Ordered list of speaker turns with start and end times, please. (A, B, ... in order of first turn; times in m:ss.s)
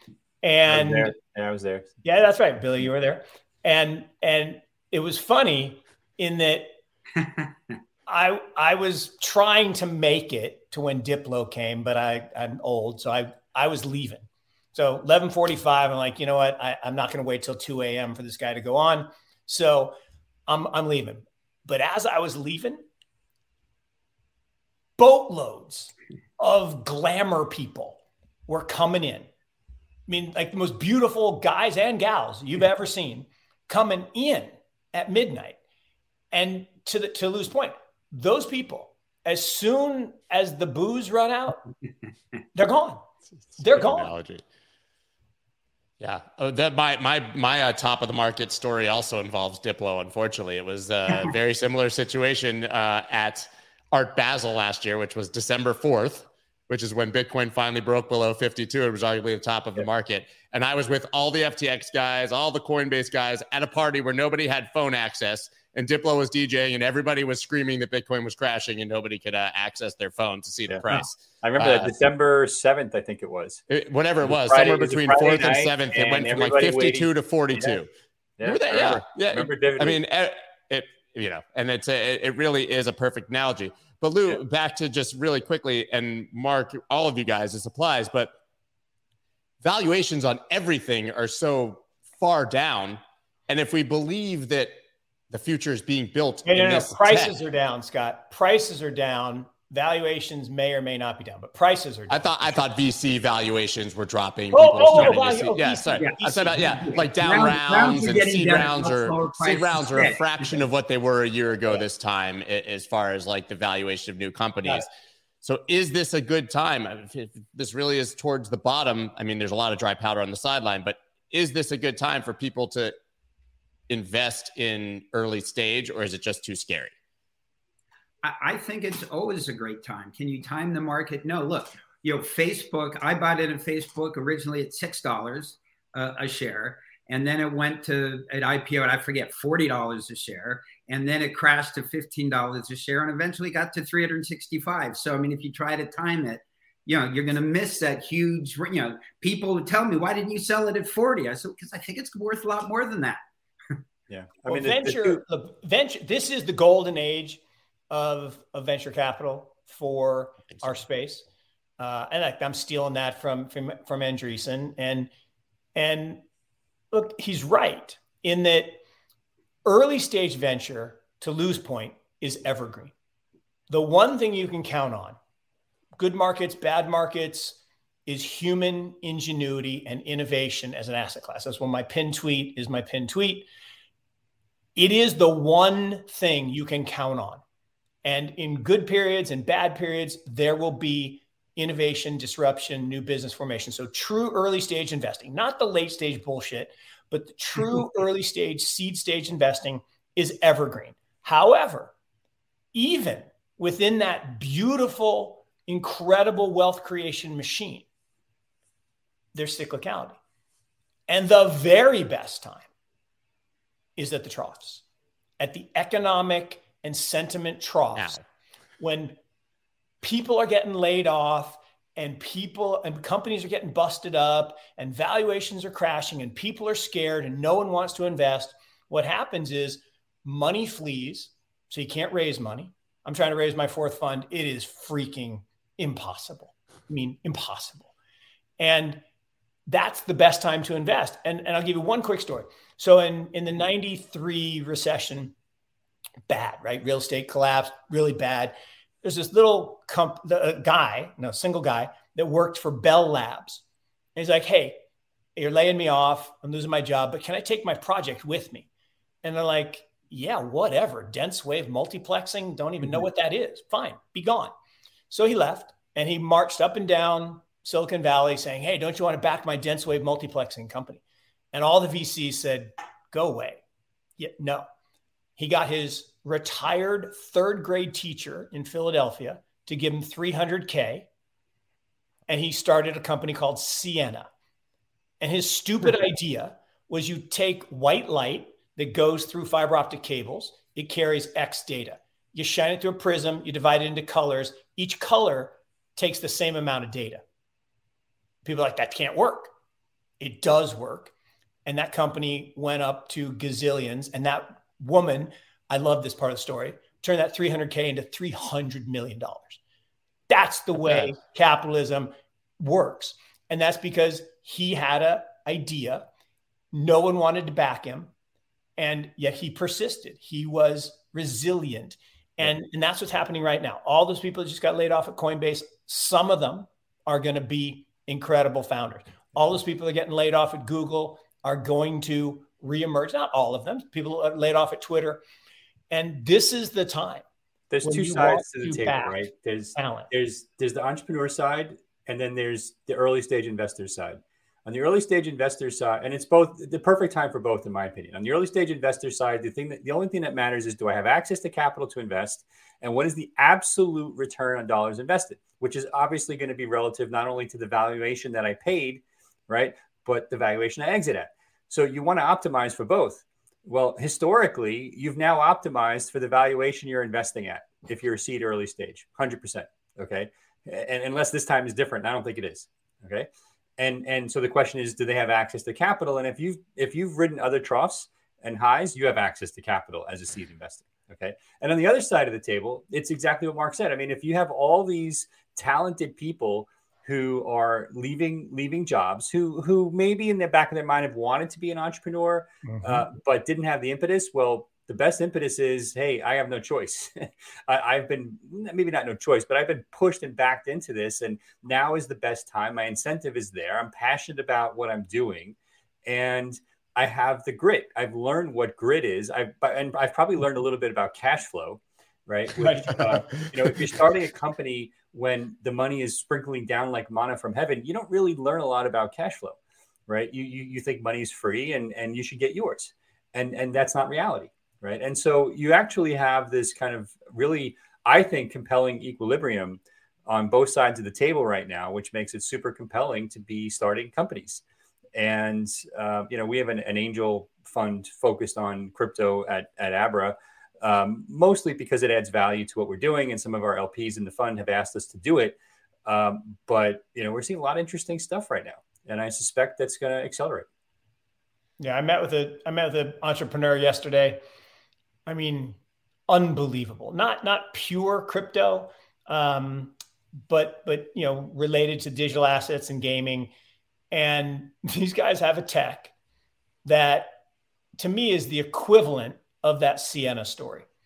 0:00.4-0:01.1 A
0:00.7-0:01.9 B
0:02.0-0:06.7 A
0:08.1-0:20.0 A
0:20.5-0:22.8 A
0:25.0-0:29.3 A
0:30.1-0:35.6 A
0:36.3-0:41.7 A
0:42.6-0:43.1 A
0:43.5-0:44.4 C
0:43.6-0:44.1 A
0:46.0-1:12.0 C
1:10.7-1:13.6 B
1:13.7-1:17.9 C
1:14.2-1:17.8 B
1:18.4-1:20.0 B
1:18.4-1:28.4 C
1:29.6-1:34.8 C
1:35.3-1:37.4 C
1:36.4-1:42.5 A
1:42.1-1:54.9 C
1:44.5-1:46.6 A
1:46.0-1:50.6 D
1:55.4-2:02.9 C
2:03.9-2:06.9 C
2:08.2-2:33.2 D
2:34.1-2:35.2 B
2:34.5-2:41.3 A
2:41.8-2:45.1 A
2:45.8-2:46.2 A
2:46.9-2:48.8 A
2:49.6-2:52.9 A
2:53.7-2:55.2 A
2:56.0-3:03.5 A
3:04.8-3:07.4 A
3:08.0-3:21.9 A
3:22.7-3:27.9 A
3:29.3-3:30.2 A
3:31.1-3:32.7 A
3:34.0-3:34.8 A
3:35.4-3:38.2 A
3:38.0-3:38.2 C
3:38.8-3:39.2 A
3:40.0-3:57.9 A
3:58.6-3:59.0 A
3:59.7-4:05.3 A
4:06.3-4:13.6 A
4:14.2-4:14.8 A
4:15.4-4:18.7 A
4:19.2-4:24.5 A
4:25.1-4:31.0 A
4:31.5-4:33.6 A
4:34.2-4:34.6 A
4:35.4-4:41.1 A
4:42.3-4:44.3 A
4:45.2-4:57.2 A
4:58.4-4:59.5 A
5:00.2-5:01.1 A
5:01.6-5:09.6 A
5:10.3-5:16.1 A
5:16.7-5:18.1 A
5:18.8-5:35.2 A
5:35.9-5:37.2 A
5:37.7-6:59.6 B
5:37.8-5:39.2 A
5:39.8-5:40.1 A
6:32.7-6:33.0 A
6:52.6-6:53.5 A
7:00.1-7:14.6 B
7:15.2-7:30.7 B
7:31.8-7:34.4 A
7:35.3-7:40.0 A
7:40.5-7:43.5 A
7:44.1-7:46.1 A
7:46.8-7:47.4 A
7:48.0-7:50.9 A